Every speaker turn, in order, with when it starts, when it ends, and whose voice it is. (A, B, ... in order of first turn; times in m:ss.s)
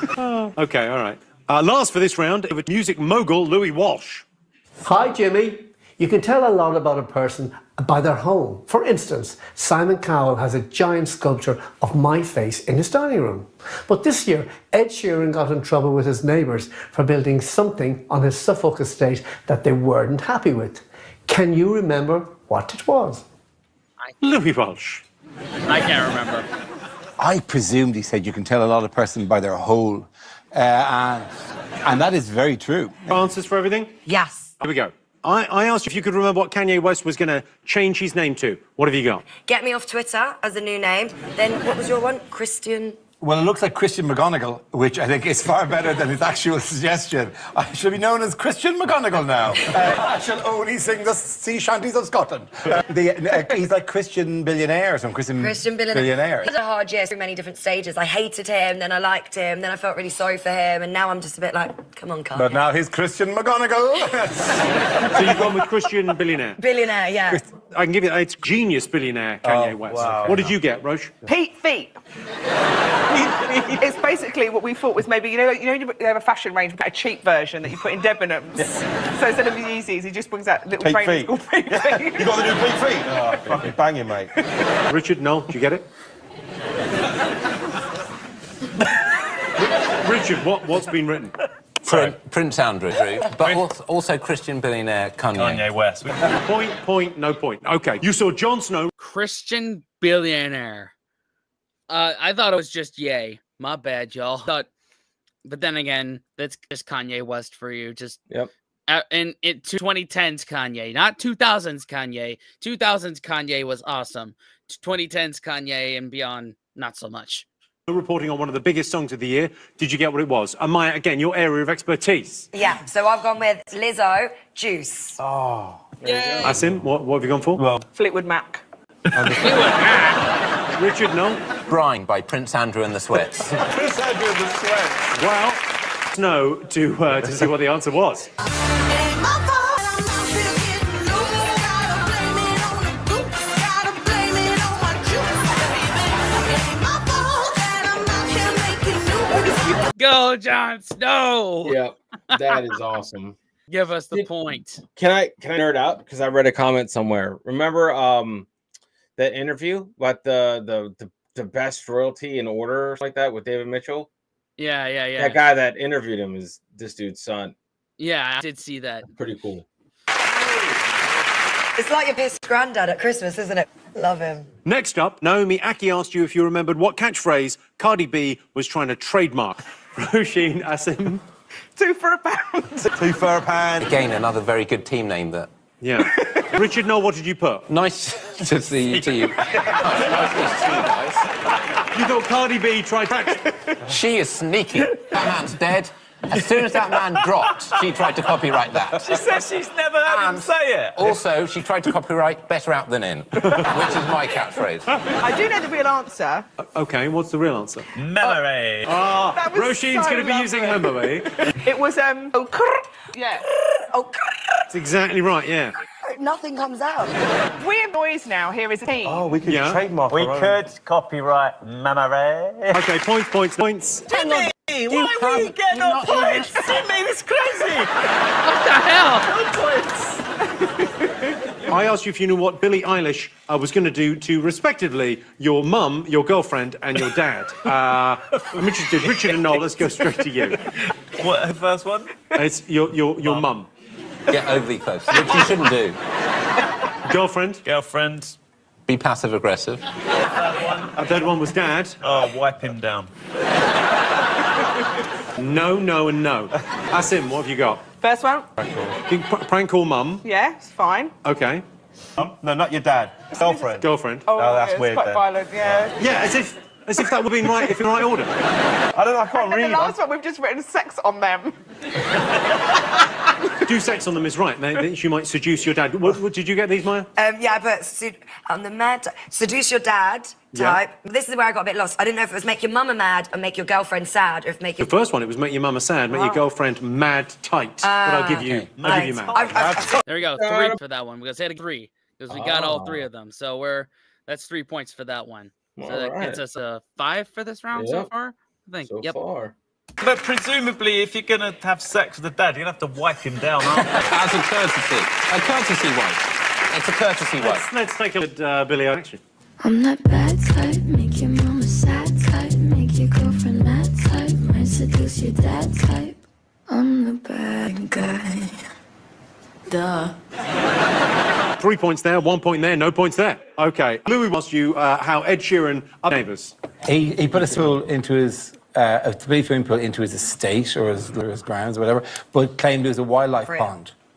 0:00.2-0:04.3 A
0:04.8-0:23.2 B
0:24.2-0:25.0 A
0:25.7-0:26.5 C
0:27.2-0:31.3 D
0:31.8-0:33.1 D
0:33.1-0:34.0 A
0:34.1-0:34.5 E
0:34.6-0:39.2 A
0:39.4-0:43.0 E
0:43.2-0:56.5 D
0:55.4-1:02.6 E
1:02.3-1:04.6 D
1:05.1-1:06.6 A
1:05.2-1:05.4 D
1:06.6-1:07.4 E
1:07.7-1:11.1 A
1:09.4-1:10.5 D
1:11.3-1:12.0 F
1:13.8-1:22.4 F
1:20.8-1:24.3 G
1:24.9-1:25.8 A
1:29.6-1:32.1 A
1:31.9-1:35.7 H
1:33.4-1:33.7 I
1:35.3-1:36.2 I
1:36.3-1:38.9 A
1:39.0-1:40.9 C
1:41.9-1:44.7 C
1:45.4-1:48.2 C
1:48.9-1:57.5 C
1:57.9-2:02.5 A
2:02.5-2:05.2 E
2:05.3-2:05.8 G
2:06.0-2:06.6 J
2:06.0-2:06.5 C
2:06.4-2:07.6 A
2:07.6-2:07.8 G
2:07.9-2:08.6 F
2:09.2-2:09.5 G
2:09.4-2:10.2 C
2:10.8-2:11.4 A
2:11.7-2:13.6 H
2:13.9-2:15.0 D
2:15.1-2:18.3 A
2:30.0-2:31.8 C
2:31.6-2:33.4 J
2:32.3-2:32.7 C
2:33.7-2:34.8 C
2:35.0-2:38.5 J
2:39.2-2:44.1 J
2:44.6-2:45.4 C
2:45.2-2:47.6 J
2:48.0-2:49.1 C
2:49.1-2:49.6 J
2:51.8-2:54.5 E
2:54.6-3:01.2 A
3:01.8-3:02.9 F
3:03.0-3:03.9 G
3:03.8-3:05.5 H
3:05.8-3:07.6 A
3:07.7-3:11.2 H
3:08.9-3:10.8 I
3:11.9-3:13.4 A
3:13.9-3:19.1 H
3:17.2-3:17.5 I
3:18.9-3:21.2 I
3:20.1-3:20.4 H
3:21.0-3:24.9 H
3:25.2-3:26.4 F
3:26.8-3:27.9 A
3:28.0-3:28.9 I
3:28.9-3:31.3 A
3:29.3-3:31.0 F
3:31.6-3:33.4 F
3:34.7-3:35.7 A
3:36.1-3:37.1 E
3:37.6-3:39.2 F
3:39.0-3:40.6 G
3:39.4-3:39.8 A
3:40.1-3:42.8 I
3:42.7-3:44.2 A
3:44.1-3:47.9 I
3:44.2-3:46.7 H
3:48.4-3:49.3 C
3:49.3-3:50.2 I
3:51.7-4:00.6 A
4:01.2-4:02.2 I
4:02.4-4:03.7 A
4:04.3-4:06.0 H
4:07.1-4:07.6 A
4:07.6-4:08.4 I
4:08.9-4:09.8 H
4:10.4-4:11.0 I
4:11.0-4:12.0 A
4:12.0-4:13.1 I
4:15.4-4:17.8 A
4:18.0-4:18.5 F
4:18.6-4:18.9 G
4:19.1-4:20.2 A
4:20.2-4:21.1 F
4:21.2-4:21.6 A
4:22.2-4:25.9 G
4:23.4-4:23.7 F
4:23.8-4:24.3 A
4:24.3-4:25.9 F
4:26.0-4:28.3 A
4:28.9-4:30.0 G
4:29.3-4:31.6 F
4:33.6-4:37.1 A
4:37.2-4:44.9 E
4:40.5-4:40.8 A
4:44.8-4:49.8 A
4:47.8-4:50.0 E
4:48.8-4:49.7 I
4:50.1-4:59.2 C
4:50.4-4:50.8 J
4:52.3-4:53.0 J
4:55.8-4:56.4 J
4:57.8-4:58.1 J
4:58.9-4:59.5 J
5:00.0-5:04.0 I
5:03.8-5:07.7 H
5:07.4-5:09.2 A
5:09.6-5:18.5 K
5:19.7-5:20.2 K
5:21.6-5:26.5 A
5:26.8-5:33.9 D
5:33.5-5:33.7 E